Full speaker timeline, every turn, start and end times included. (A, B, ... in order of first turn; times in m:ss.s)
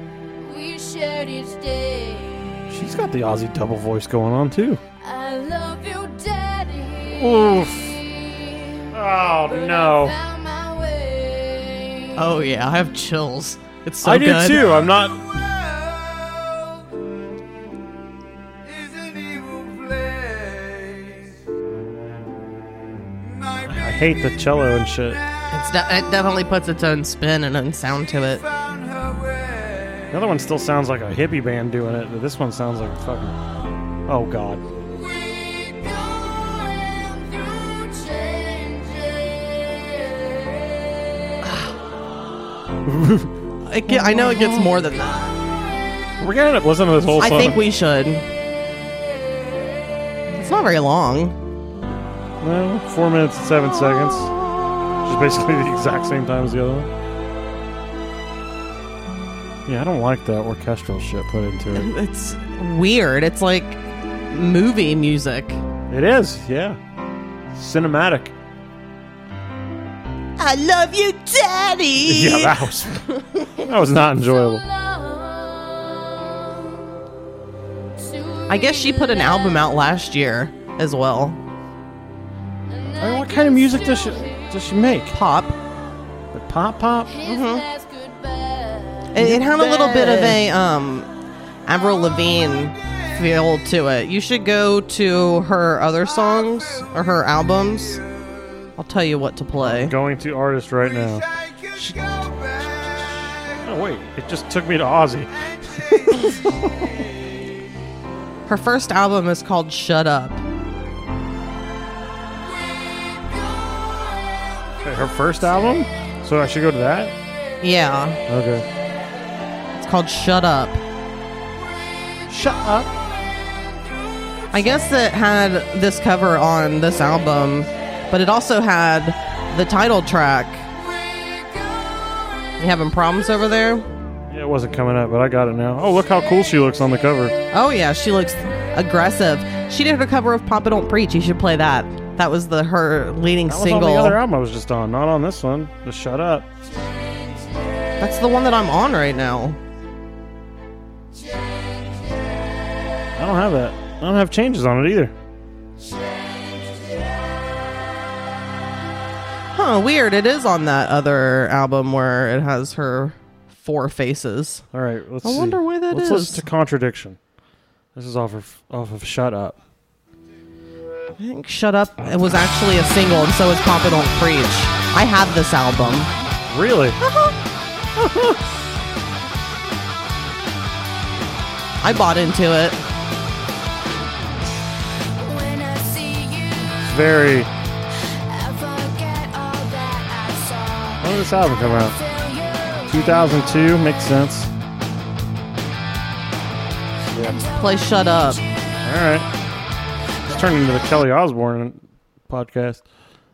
0:00.4-0:02.7 A
0:02.7-0:04.8 B
0:05.0-0:08.9 A
0:07.1-0:08.0 B
0:08.9-0:10.2 B
0:09.5-0:12.3 A
0:12.2-0:14.8 C
0:14.0-0:15.4 B
0:23.6-0:25.2 B
0:25.5-0:28.4 C
0:30.1-0:33.4 B
0:34.1-0:34.6 B
0:35.1-0:40.6 A
0:41.4-0:41.7 C
0:42.8-0:43.3 B
0:43.6-0:45.3 C
0:43.9-0:44.7 B
0:46.2-0:47.6 B
0:47.2-0:48.2 C
0:50.3-0:51.4 C
0:52.4-0:54.3 B
0:55.0-0:56.9 B
0:59.6-1:01.9 B
1:01.7-1:05.6 C
1:05.9-1:06.8 B
1:07.5-1:08.3 B
1:10.4-1:12.6 C
1:12.0-1:14.6 B
1:14.2-1:16.6 A
1:18.0-1:19.7 A
1:18.5-1:21.4 C
1:22.7-1:24.6 A
1:23.0-1:25.2 B
1:25.1-1:25.6 C
1:26.3-1:27.1 B
1:27.1-1:29.6 A
1:27.2-1:27.6 C
1:29.1-1:31.1 C
1:29.2-1:30.4 B
1:31.6-1:38.0 C
1:38.8-1:39.9 C
1:39.6-1:46.9 B
1:48.5-1:50.4 C
1:54.8-1:57.1 B
1:57.6-1:58.2 C
1:58.3-1:58.6 B
1:59.7-2:00.8 C
2:02.3-2:02.9 B
2:04.5-2:10.6 C
2:12.6-2:13.9 C
2:14.3-2:17.4 B
2:17.5-2:24.2 C
2:23.5-2:26.5 B
2:28.0-2:29.6 C
2:33.2-2:35.1 B
2:39.5-2:44.6 C
2:44.7-2:47.2 B
2:45.2-2:46.4 C
2:47.9-2:49.6 B
2:51.2-2:56.1 C
2:56.5-2:57.0 B
2:57.0-2:57.4 C
2:58.0-2:58.4 B
3:01.8-3:02.8 C
3:05.2-3:07.2 A
3:06.8-3:07.5 B
3:07.9-3:13.8 A
3:11.0-3:12.0 B
3:12.9-3:14.5 B
3:17.1-3:17.4 B
3:17.2-3:18.6 A
3:17.6-3:18.4 C
3:18.8-3:19.3 B
3:20.3-3:22.8 B